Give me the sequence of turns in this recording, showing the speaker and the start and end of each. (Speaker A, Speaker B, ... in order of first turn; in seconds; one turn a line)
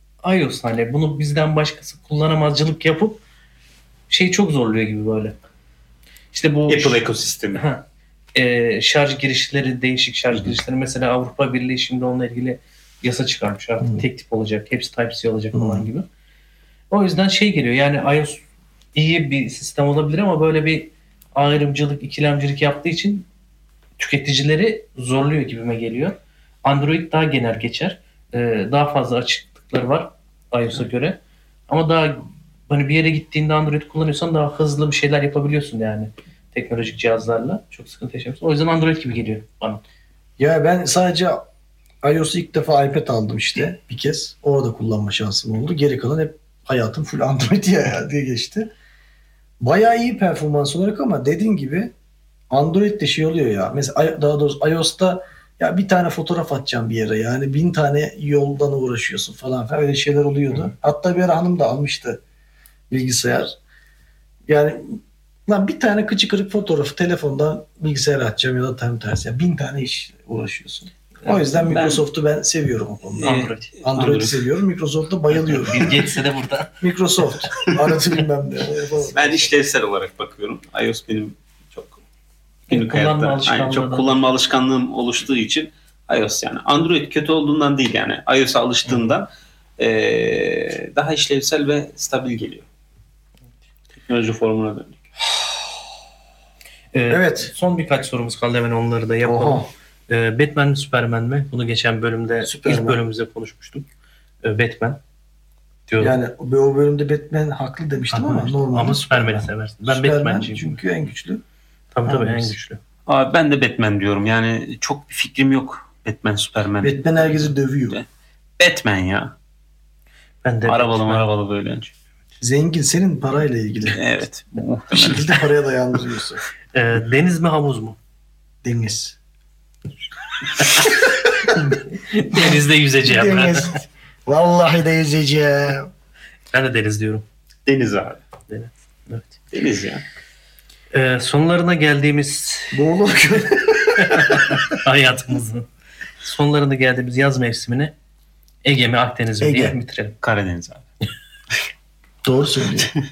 Speaker A: 0.2-3.2
Speaker A: 4.1-5.4
Speaker A: 6.3-7.0
Speaker B: 6.7-7.6
Speaker A: 7.5-7.8
Speaker A: 8.3-16.1
Speaker C: 15.5-15.8
Speaker A: 16.9-18.4
Speaker A: 18.9-23.3
Speaker A: 24.0-39.8
Speaker C: 40.4-41.4
Speaker C: 42.0-48.7
Speaker C: 49.6-51.9
Speaker C: 52.5-62.2
Speaker C: 62.9-63.6
Speaker C: 64.5-76.0
Speaker A: 71.2-71.6
Speaker B: 71.7-72.0
Speaker B: 73.2-74.4
Speaker A: 73.2-73.7
Speaker A: 75.5-76.8
Speaker C: 76.8-79.5
Speaker B: 79.1-82.0
Speaker A: 82.7-84.1
Speaker B: 82.7-92.6
Speaker B: 93.9-95.0
Speaker A: 96.9-103.9
Speaker C: 97.1-97.5
Speaker C: 99.2-99.7
Speaker C: 102.4-103.0
Speaker A: 104.4-105.0
Speaker A: 105.9-106.2
Speaker C: 106.0-111.4
Speaker A: 108.1-110.8
Speaker A: 111.9-112.8
Speaker C: 112.0-112.6
Speaker B: 113.1-118.0
Speaker C: 116.8-118.0
Speaker B: 118.6-119.3
Speaker A: 120.4-121.3
Speaker B: 120.7-121.9
Speaker C: 122.4-124.0
Speaker B: 123.9-125.4
Speaker C: 124.9-126.4
Speaker A: 126.7-128.0
Speaker C: 128.6-129.2
Speaker A: 131.5-133.8
Speaker C: 132.3-135.9
Speaker A: 136.5-137.2
Speaker B: 137.7-138.2
Speaker A: 138.5-139.3
Speaker B: 139.5-140.0
Speaker A: 140.9-142.8
Speaker C: 142.7-144.6
Speaker A: 144.0-145.7
Speaker A: 146.2-147.9
Speaker A: 148.6-150.2
Speaker C: 149.4-149.8
Speaker B: 150.2-150.9
Speaker C: 152.2-152.9